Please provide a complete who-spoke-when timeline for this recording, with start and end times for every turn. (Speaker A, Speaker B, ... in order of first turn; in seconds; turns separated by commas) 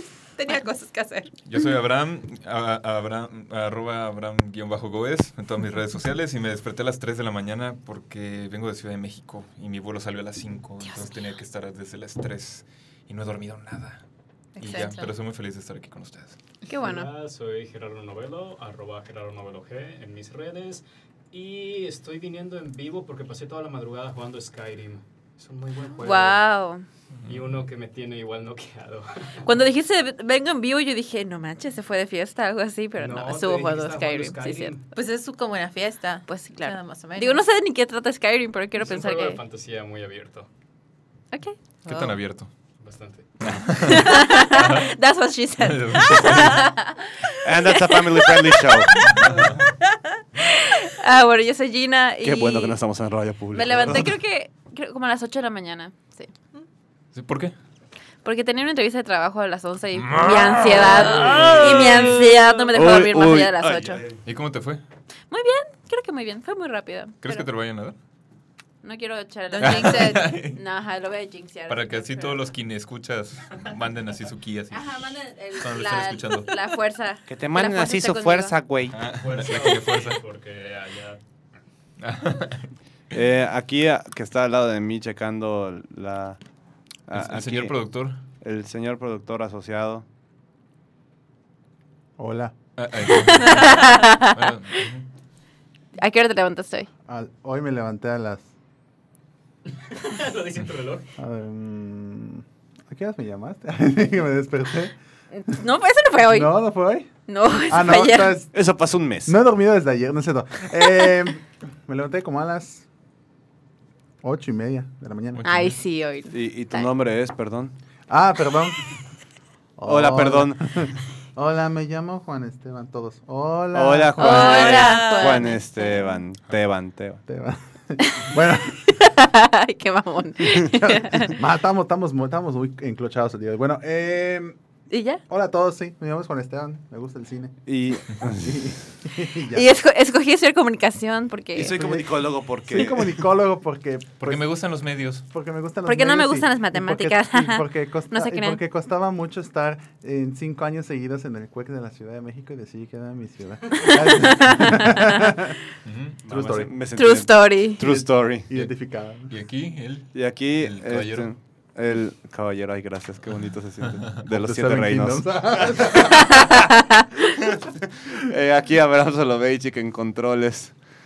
Speaker A: 0.3-1.3, Speaker B: 1.4-14.0, Speaker A: 14.6-15.1, Speaker B: 14.6-16.4, Speaker C: 16.7-17.1, Speaker D: 16.8-26.4, Speaker C: 26.0-26.8, Speaker D: 27.2-29.5, Speaker C: 29.4-34.7, Speaker D: 33.0-34.9, Speaker A: 34.9-37.4, Speaker C: 36.3-39.4, Speaker D: 38.8-40.5, Speaker C: 41.3-42.1, Speaker B: 41.9-42.5, Speaker D: 42.8-43.3, Speaker B: 43.4-44.9, Speaker C: 43.8-49.3, Speaker B: 45.6-46.6, Speaker E: 47.4-49.1, Speaker D: 49.3-49.6, Speaker C: 50.4-52.8, Speaker E: 52.2-54.1, Speaker C: 53.5-56.3, Speaker B: 57.1-57.5, Speaker C: 58.2-64.0, Speaker B: 60.0-62.2, Speaker A: 61.1-62.6, Speaker E: 61.2-62.2, Speaker D: 61.2-61.5, Speaker E: 62.7-64.2, Speaker B: 64.2-64.8, Speaker C: 65.3-67.4, Speaker B: 67.2-67.9, Speaker C: 68.8-72.4, Speaker A: 69.5-70.3, Speaker B: 69.6-70.6, Speaker B: 71.7-75.0, Speaker C: 74.7-78.5, Speaker B: 75.6-76.5, Speaker E: 77.3-79.0, Speaker B: 78.9-80.2, Speaker D: 79.1-81.2, Speaker B: 82.0-82.7, Speaker E: 83.1-86.4, Speaker E: 87.1-87.7, Speaker B: 87.1-88.2, Speaker E: 88.4-90.0, Speaker F: 92.2-92.5, Speaker B: 92.8-95.0, Speaker C: 93.1-94.5, Speaker C: 96.0-96.9, Speaker F: 97.1-98.5, Speaker D: 99.8-101.1, Speaker F: 101.2-104.9, Speaker C: 105.3-106.5, Speaker F: 106.2-107.1, Speaker C: 107.3-108.4, Speaker F: 107.7-108.5, Speaker E: 108.5-109.3, Speaker F: 109.2-112.8, Speaker F: 114.2-115.4, Speaker B: 115.3-115.8, Speaker C: 115.4-116.9, Speaker E: 116.3-117.7, Speaker F: 118.1-118.8, Speaker F: 119.8-124.6, Speaker E: 119.8-120.6, Speaker E: 123.7-127.2, Speaker C: 124.2-126.2, Speaker A: 124.3-125.5, Speaker F: 127.3-128.9, Speaker C: 128.0-128.3, Speaker C: 128.9-131.3, Speaker F: 130.4-134.6, Speaker C: 134.9-135.2, Speaker F: 135.3-137.6, Speaker E: 137.7-138.7, Speaker F: 138.1-139.7, Speaker C: 139.5-141.8, Speaker E: 141.6-143.2, Speaker F: 141.7-144.5, Speaker B: 144.2-145.2, Speaker F: 145.3-155.5, Speaker C: 145.8-148.6, Speaker C: 153.7-155.4, Speaker B: 155.8-156.2, Speaker E: 156.2-158.5, Speaker F: 156.3-156.7, Speaker C: 156.9-157.8, Speaker F: 157.8-159.3, Speaker B: 159.3-161.3, Speaker E: 160.1-166.5, Speaker F: 164.3-166.6, Speaker C: 166.5-166.8, Speaker E: 167.4-170.7